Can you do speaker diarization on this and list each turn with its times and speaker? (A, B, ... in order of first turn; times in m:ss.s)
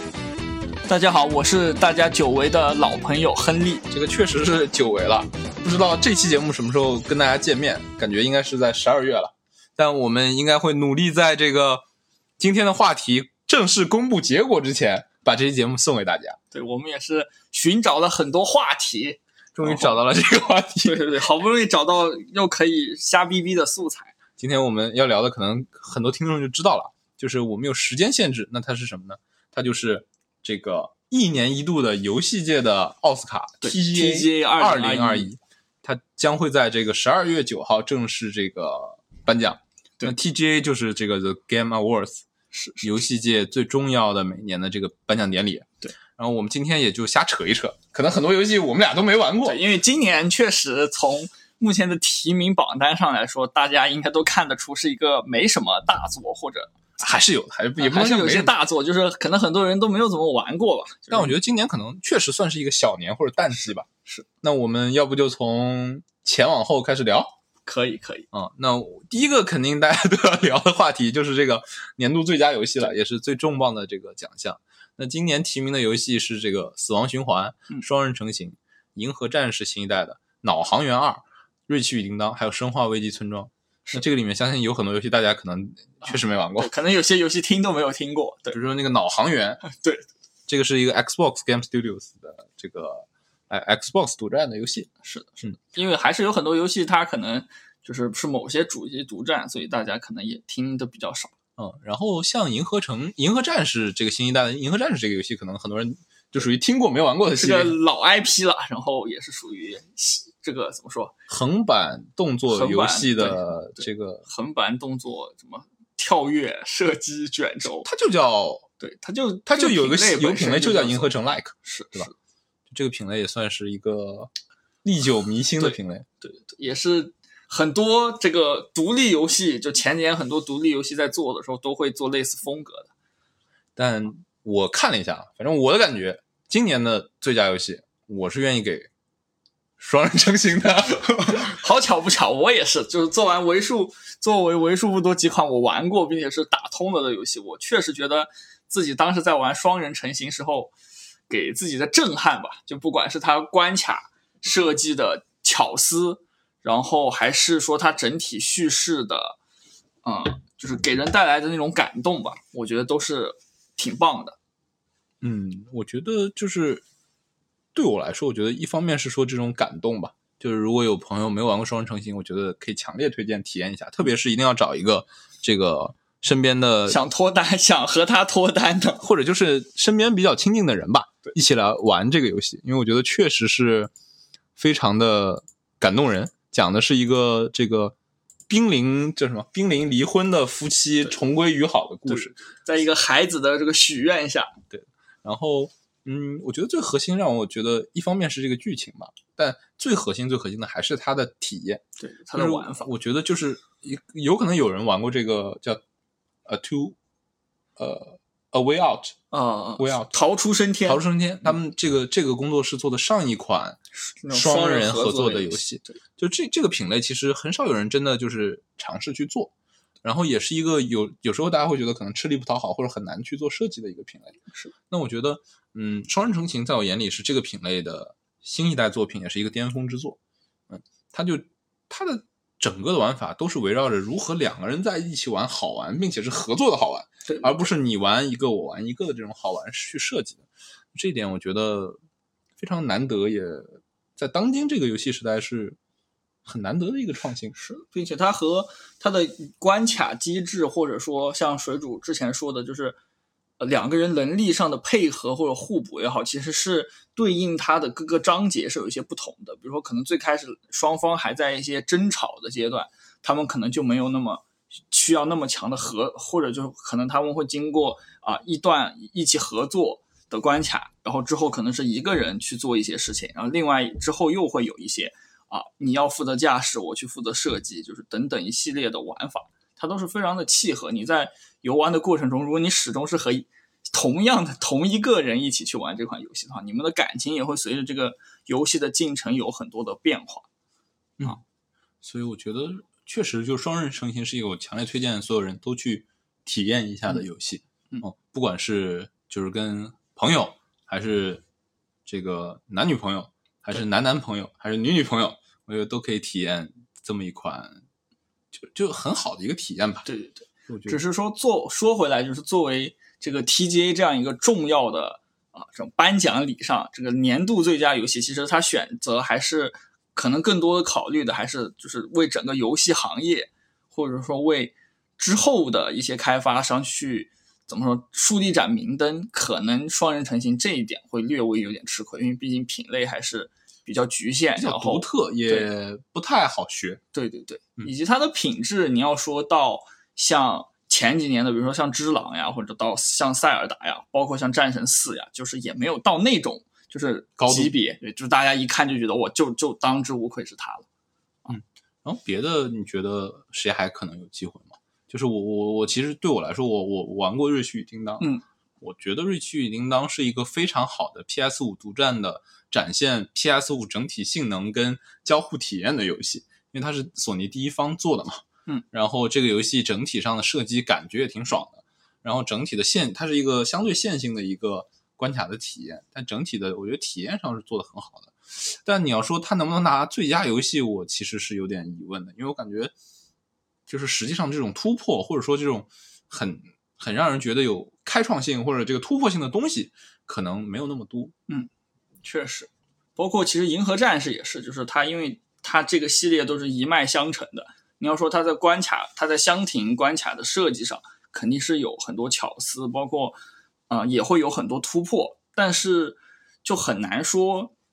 0:00.9-0:03.8 A
0:03.9-0:11.8 B
0:12.4-0:16.4 B
0:16.5-0:20.0 A
0:19.5-0:21.1 B
0:20.8-0:24.1 A
0:24.4-0:42.2 B
0:33.6-0:35.3 A
0:42.5-0:42.9 A
0:42.8-0:49.6 B
0:49.4-0:56.7 A
0:57.0-0:58.5 B
0:57.8-1:01.3 A
1:01.1-1:03.9 B
1:04.4-1:07.3 B
1:07.6-1:08.3 A
1:08.3-1:26.7 B
1:26.0-1:28.6 A
1:28.5-1:29.6 B
1:29.7-1:30.0 A
1:30.5-1:34.9 B
1:35.0-1:41.3 A
1:41.6-1:47.8 B
1:47.4-1:51.1 A
1:51.3-1:54.2 B
1:52.5-1:57.9 A
1:57.8-1:58.7 B
1:58.8-2:01.1 A
1:59.4-2:02.1 B
2:01.6-2:02.1 A
2:02.7-2:04.3 B
2:04.8-2:06.0 B
2:05.6-2:12.9 A
2:13.8-2:18.9 B
2:19.8-2:21.5 B
2:21.2-2:30.7 A
2:31.3-2:39.4 A
2:40.0-2:44.4 A
2:45.2-2:46.8 B
2:47.7-2:57.0 B
2:56.9-2:59.0 A
2:59.0-3:03.9 B
3:04.6-3:07.9 B
3:08.5-3:12.3 B
3:12.1-3:14.5 A
3:14.7-3:21.8 B
3:22.0-3:22.9 A
3:22.3-3:25.8 B
3:26.4-3:27.0 B
3:27.8-3:29.2 B
3:29.3-3:31.0 A
3:29.8-3:30.1 B
3:30.8-3:33.8 B
3:34.0-3:35.9 A
3:34.3-3:39.5 B
3:40.0-3:44.3 B
3:44.9-3:50.2 B
3:50.7-4:00.4 B
3:57.2-3:57.5 A
4:00.9-4:02.0 B
4:02.6-4:05.8 B
4:06.4-4:07.5 B
4:07.5-4:13.0 A
4:13.6-4:50.4 A
4:52.0-5:01.4 B
5:02.0-5:07.8 B
5:08.5-5:10.0 B
5:10.0-5:35.7 A
5:10.7-5:11.0 B
5:34.6-5:37.0 B
5:37.1-5:50.8 A
5:47.4-5:47.7 B
5:51.5-5:58.3 B
5:58.8-6:22.9 B
6:23.9-6:31.3 B
6:32.2-6:43.4 A
6:43.9-6:47.7 A